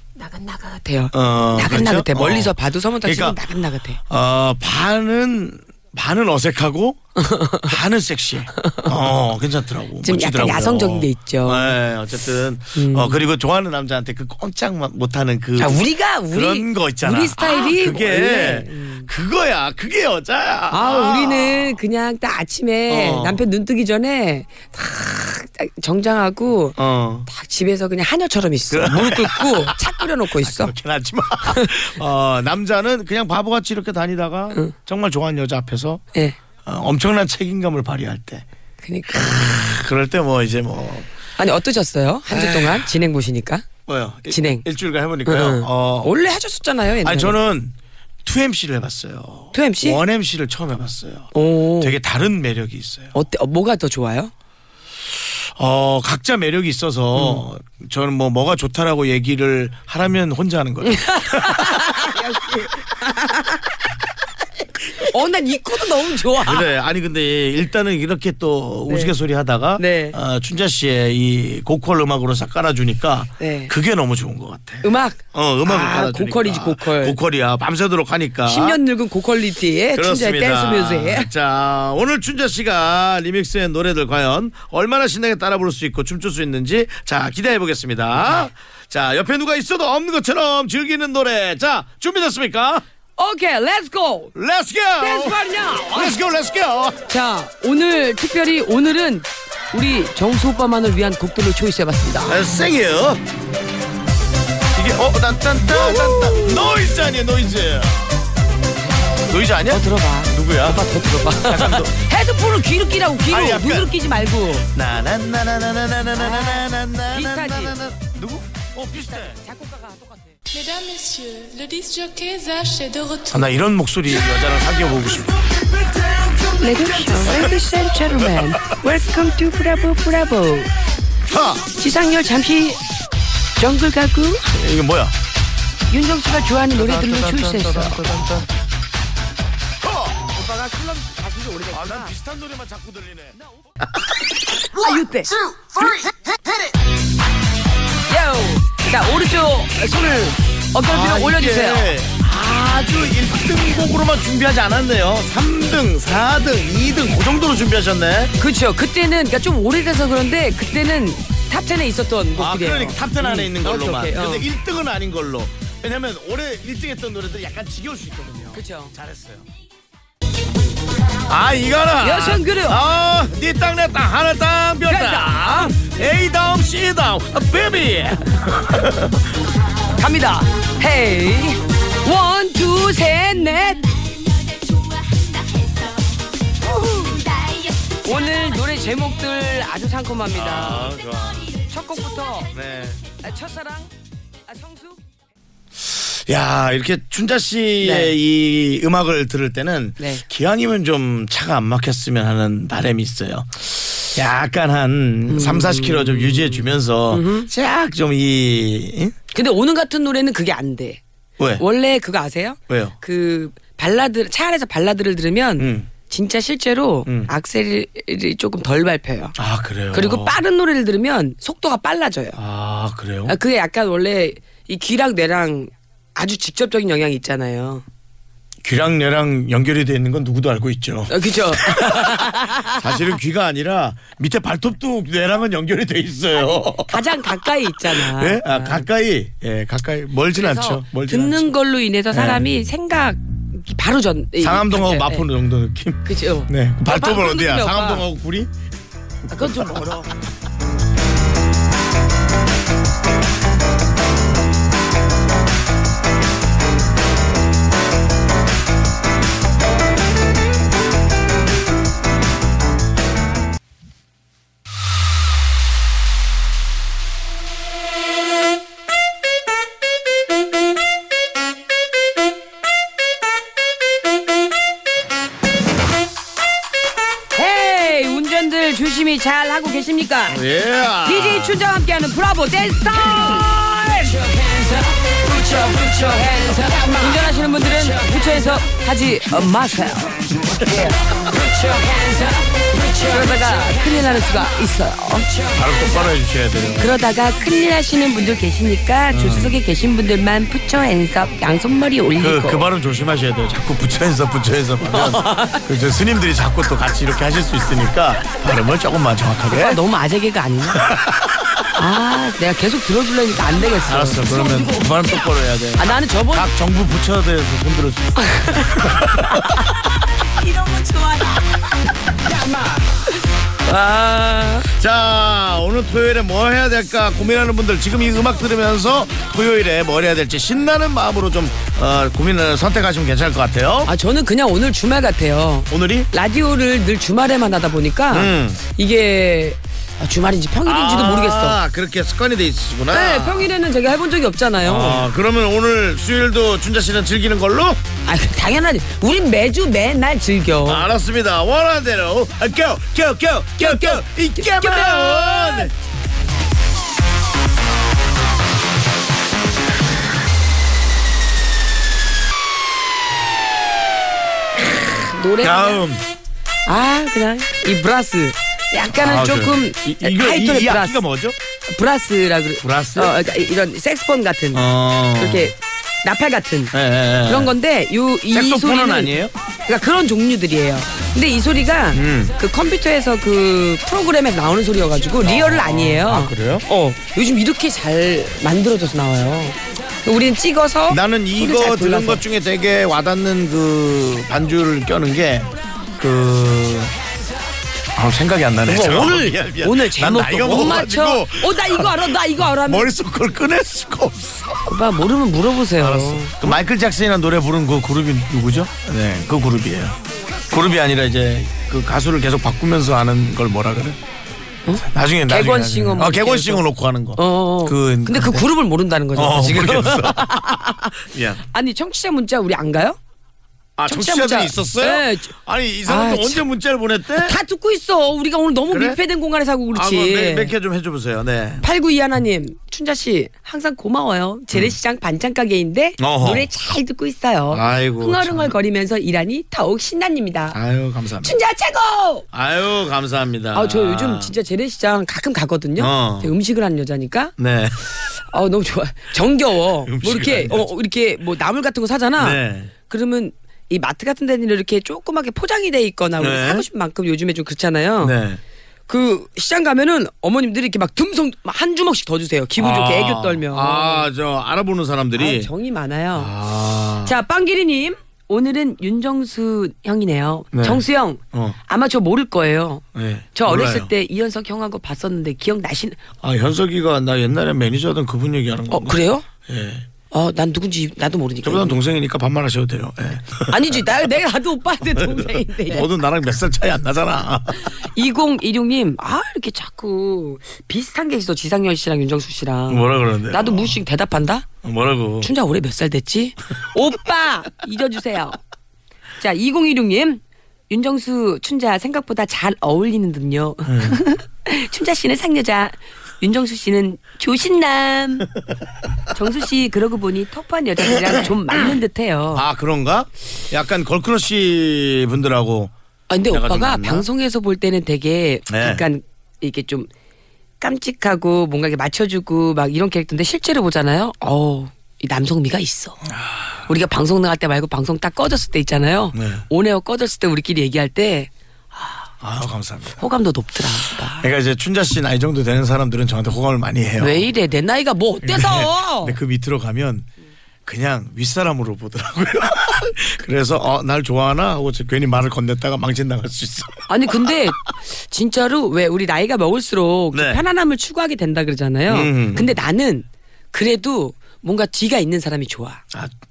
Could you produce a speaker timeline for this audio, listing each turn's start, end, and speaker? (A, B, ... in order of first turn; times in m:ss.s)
0:00.2-0:04.0 A
0:01.1-0:03.4 B
0:04.1-0:07.0 B
0:07.2-0:07.7 A
0:07.6-0:21.8 B
0:10.0-0:11.7 A
0:12.8-0:13.2 A
0:15.6-0:19.1 A
0:20.7-0:26.8 A
0:22.9-0:23.4 B
0:26.8-0:27.3 B
0:27.3-0:30.7 A
0:28.7-0:36.0 B
0:36.6-0:38.4 B
0:38.8-0:39.6 A
0:39.1-0:41.1 B
0:41.4-0:43.7 A
0:42.3-0:42.9 B
0:43.9-0:46.1 B
0:44.3-0:44.6 A
0:45.2-0:47.4 A
0:47.0-0:53.1 B
0:49.5-0:50.0 A
0:51.3-0:51.9 A
0:53.1-0:54.3 A
0:55.6-1:02.1 B
0:57.2-0:57.4 A
1:00.8-1:03.8 A
1:04.8-1:06.7 A
1:06.4-1:18.8 B
1:09.8-1:10.2 A
1:13.4-1:13.7 A
1:14.8-1:17.2 A
1:18.4-1:21.3 A
1:19.9-1:32.8 B
1:33.2-1:34.3 A
1:34.4-1:37.0 B
1:35.0-1:36.2 A
1:37.1-1:42.4 A
1:42.2-1:43.2 B
1:44.7-1:48.2 B
1:45.7-1:46.7 A
1:49.3-1:52.0 B
1:49.7-1:54.6 A
1:53.3-1:54.0 B
1:54.6-1:59.4 B
1:56.2-1:57.8 A
1:59.1-2:00.4 A
2:00.5-2:03.5 C
2:03.3-2:05.5 B
2:06.4-2:10.7 A
2:07.0-2:07.6 B
2:08.2-2:08.8 B
2:11.3-2:11.7 B
2:11.7-2:12.8 A
2:13.6-2:14.4 A
2:14.5-2:15.1 B
2:15.9-2:18.3 A
2:17.6-2:18.0 B
2:19.8-2:20.3 B
2:20.3-2:22.1 A
2:21.7-2:23.4 B
2:24.7-2:25.3 A
2:28.1-2:31.9 A
2:30.8-2:38.3 B
2:38.4-2:44.4 A
2:42.4-2:49.5 B
2:48.5-2:48.9 A
2:51.3-2:59.3 B
2:52.0-2:52.8 A
2:54.9-2:55.7 A
2:59.9-3:06.0 A
3:06.6-3:10.9 A
3:10.3-3:11.6 B
3:11.5-3:12.5 A
3:12.5-3:13.1 B
3:13.2-3:13.9 A
3:14.5-3:15.0 A
3:15.8-3:29.2 B
3:17.8-3:18.1 A
3:25.3-3:27.5 A
3:29.3-3:31.0 A
3:31.4-3:31.6 B
3:31.6-3:39.4 A
3:32.7-3:32.9 B
3:35.6-3:35.9 B
3:37.1-3:37.3 B
3:39.4-3:40.4 B
3:39.9-3:42.4 A
3:42.4-3:43.4 B
3:43.3-3:47.8 A
3:48.6-4:01.5 B
3:51.1-3:52.8 A
3:56.4-3:58.8 A
4:00.4-4:05.2 A
4:02.1-4:02.4 B
4:04.4-4:08.5 B
4:06.0-4:08.0 A
4:09.3-4:10.1 B
4:09.3-4:10.1 A
4:37.3-4:40.4 A
4:40.3-4:41.6 B
4:41.0-4:50.2 A
4:51.4-4:55.4 A
4:55.5-4:56.9 B
4:56.8-5:02.6 A
4:59.1-4:59.5 B
5:02.2-5:09.8 B
5:04.8-5:05.6 A
5:09.5-5:10.9 A
5:10.7-5:11.6 B
5:11.8-5:14.8 A
5:13.8-5:19.6 B
5:15.8-5:16.5 A
5:18.2-5:18.8 A
5:20.4-5:21.4 A
5:22.2-5:23.0 A
5:23.7-5:24.7 A
5:24.6-5:33.9 B
5:33.8-5:41.6 A
5:35.7-5:36.1 B
5:38.1-5:38.6 B
5:40.6-5:43.5 B
5:42.9-5:45.1 A
5:44.6-5:47.8 B
5:48.0-5:50.8 A
5:50.6-5:55.7 B
5:53.6-5:55.7 A
6:04.7-6:05.8 A
6:05.4-6:06.0 B
6:06.6-6:11.0 A
6:08.9-6:11.4 B
6:11.7-6:14.6 A
6:12.6-6:13.2 B
6:14.5-6:15.5 B
6:15.2-6:16.7 A
6:16.7-6:17.5 B
6:17.2-6:19.1 A
6:18.3-6:19.3 B
6:19.6-6:32.2 A
6:21.9-6:22.3 B
6:25.2-6:26.6 B
6:30.9-6:36.9 B
6:38.0-6:44.8 B
6:38.7-6:42.9 A
6:44.6-6:46.5 A
6:45.8-6:50.0 B
6:50.5-6:54.0 B
6:54.6-6:56.6 A
6:54.8-6:58.4 B
6:57.2-7:01.0 A
6:59.1-7:00.4 B
7:01.1-7:01.4 B
7:01.5-7:03.0 A
7:03.8-7:07.4 B
7:03.9-7:05.3 A
7:05.8-7:06.4 A
7:07.2-7:10.5 A
7:08.7-7:09.0 B
7:09.7-7:11.6 B
7:11.6-7:20.6 A
7:16.0-7:16.5 B
7:17.5-7:18.5 B
7:20.5-7:21.4 B
7:21.2-7:22.2 A
7:22.3-7:24.3 B
7:23.5-7:27.3 A
7:25.8-7:26.3 B
7:27.4-7:27.8 B
7:28.3-7:38.1 A
7:29.8-7:30.7 B
7:32.2-7:32.7 B
7:36.2-7:36.6 B
7:38.0-7:38.4 B
7:38.9-7:44.1 A
7:42.6-7:45.5 B
7:45.2-7:46.3 A
7:46.1-7:47.1 B
7:47.0-7:56.0 A
7:50.5-7:51.6 B
7:52.9-7:53.9 B
7:56.2-7:59.9 B
7:58.7-7:59.2 A
8:00.1-8:01.8 A
8:01.4-8:03.8 B
8:03.5-8:05.9 A
8:04.8-8:07.8 B
8:07.6-8:14.5 A
8:12.7-8:13.8 B
8:14.6-8:15.3 B
8:15.2-8:18.4 A
8:19.2-8:28.3 A
8:23.6-8:24.0 B
8:29.1-8:32.4 A
8:30.9-8:31.2 B
8:32.3-8:35.7 B
8:36.1-8:39.9 A
8:36.3-8:37.1 B
8:38.5-8:38.8 B
8:40.6-8:46.0 A
8:46.1-8:46.6 B
8:46.7-8:52.0 A
8:49.1-8:49.4 B
8:52.2-8:53.0 B
8:53.0-8:54.2 A
8:54.2-8:57.3 B
8:57.0-8:59.2 A
8:58.2-9:00.1 B
9:00.6-9:07.5 B
9:06.9-9:15.8 A
9:10.1-9:10.4 B
9:11.9-9:12.5 B